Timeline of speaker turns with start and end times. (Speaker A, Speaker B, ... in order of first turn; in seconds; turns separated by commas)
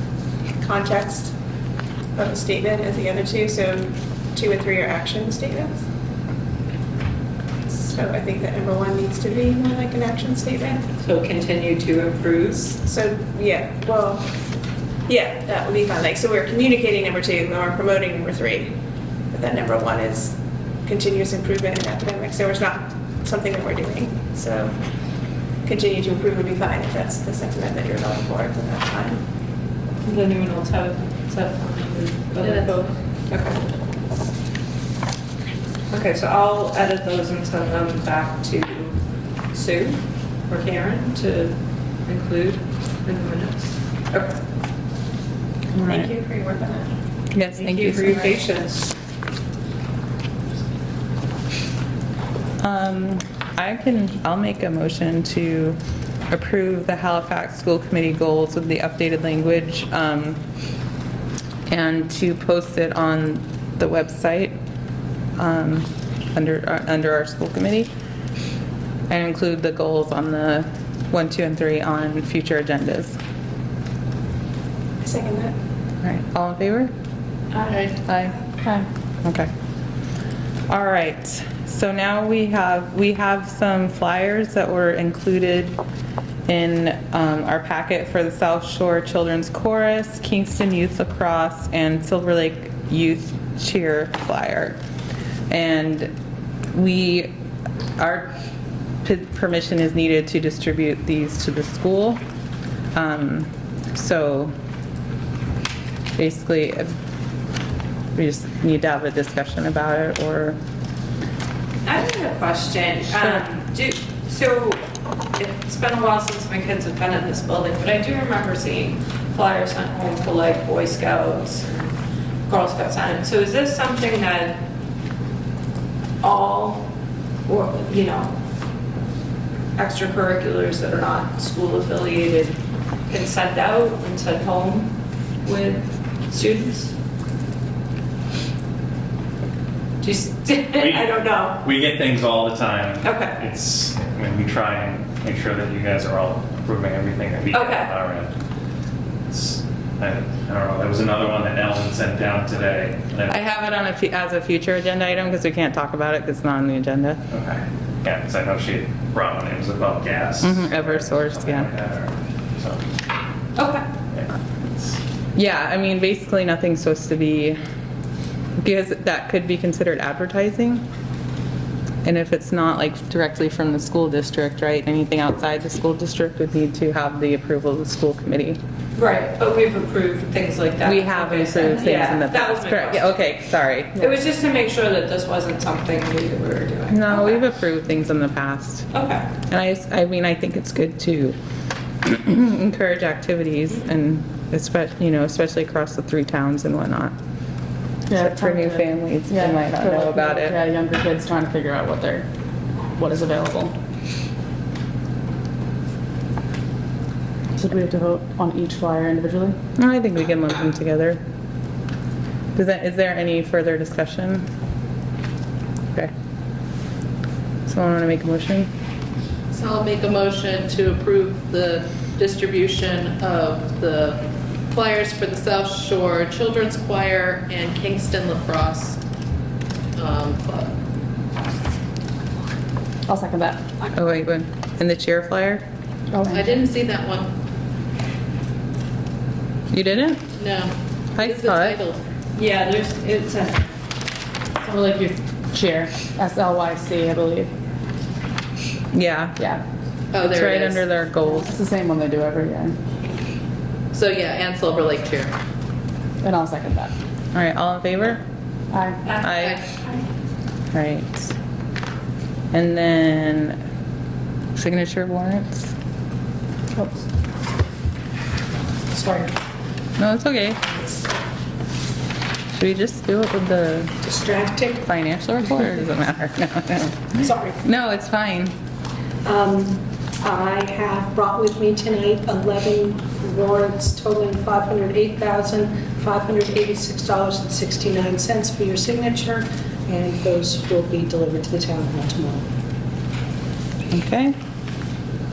Speaker A: 0.6-1.3, Speaker A: 2.1-5.8, Speaker A: 7.6-10.9, Speaker B: 11.0-12.8, Speaker A: 12.8-14.2, Speaker A: 15.1-18.8, Speaker A: 19.3-24.7, Speaker A: 25.6-29.2, Speaker B: 30.0-33.6, Speaker B: 35.9-39.0, Speaker B: 39.5-44.4, Speaker C: 45.7-46.1, Speaker A: 45.9-46.9, Speaker C: 47.3-48.3, Speaker B: 47.6-48.9, Speaker C: 52.6-55.8, Speaker C: 56.3-60.4, Speaker C: 61.7-64.6, Speaker C: 65.4-67.9, Speaker C: 69.1-73.2, Speaker A: 75.0-75.5, Speaker C: 76.0-76.9, Speaker A: 77.5-77.9, Speaker C: 78.1-78.4, Speaker C: 79.2-79.5, Speaker C: 80.7-85.8, Speaker C: 86.5-94.8, Speaker C: 95.5-96.1, Speaker C: 96.7-97.3, Speaker C: 98.0-98.3, Speaker C: 99.0-102.2, Speaker C: 102.9-104.5, Speaker C: 106.2-106.9, Speaker C: 108.1-110.6, Speaker B: 111.8-114.8, Speaker C: 113.1-113.4, Speaker B: 115.4-121.9, Speaker B: 122.5-124.6, Speaker B: 126.2-126.9, Speaker B: 127.5-128.3, Speaker B: 129.8-132.6, Speaker B: 133.1-134.9, Speaker B: 135.4-136.9, Speaker B: 140.0-140.9, Speaker D: 140.7-148.3, Speaker A: 140.9-141.6, Speaker A: 143.0-143.4, Speaker B: 147.5-147.9, Speaker D: 149.3-153.4, Speaker C: 153.3-157.2, Speaker D: 157.3-162.8, Speaker C: 160.4-161.7, Speaker B: 163.6-163.8, Speaker D: 164.1-165.0, Speaker C: 165.3-167.6, Speaker C: 168.6-170.8, Speaker C: 172.0-178.6, Speaker B: 178.9-183.2, Speaker C: 180.8-184.1, Speaker B: 183.9-187.5, Speaker C: 186.9-188.9, Speaker B: 188.9-189.2, Speaker C: 189.5-191.3, Speaker C: 192.0-197.2, Speaker E: 198.1-202.2, Speaker C: 198.1-200.6, Speaker E: 202.9-203.7, Speaker E: 207.5-209.6, Speaker C: 209.8-211.2, Speaker C: 212.5-214.4, Speaker C: 217.7-218.7, Speaker F: 219.6-224.2, Speaker B: 222.0-222.3, Speaker F: 224.7-228.8, Speaker B: 226.3-226.8, Speaker B: 227.3-228.0, Speaker B: 230.0-230.7, Speaker F: 230.1-230.6, Speaker E: 233.1-233.9, Speaker C: 233.9-235.6, Speaker E: 236.1-236.6, Speaker B: 236.3-237.3, Speaker C: 239.7-240.3, Speaker B: 240.4-243.7, Speaker C: 241.2-241.8, Speaker E: 244.6-247.5, Speaker C: 248.9-249.4, Speaker B: 250.1-250.8, Speaker C: 250.2-251.6, Speaker E: 251.2-252.8, Speaker B: 253.9-255.4, Speaker E: 256.2-256.9, Speaker C: 257.3-258.2, Speaker E: 258.7-259.0, Speaker B: 259.0-260.1, Speaker C: 259.2-259.6, Speaker C: 260.7-261.3, Speaker C: 262.5-263.6, Speaker C: 264.6-265.7, Speaker G: 268.9-269.3, Speaker C: 270.0-270.6, Speaker C: 272.5-273.9, Speaker G: 274.0-274.8, Speaker C: 274.8-277.1, Speaker G: 277.1-277.6, Speaker C: 277.6-278.5, Speaker G: 279.2-292.4, Speaker C: 293.9-294.3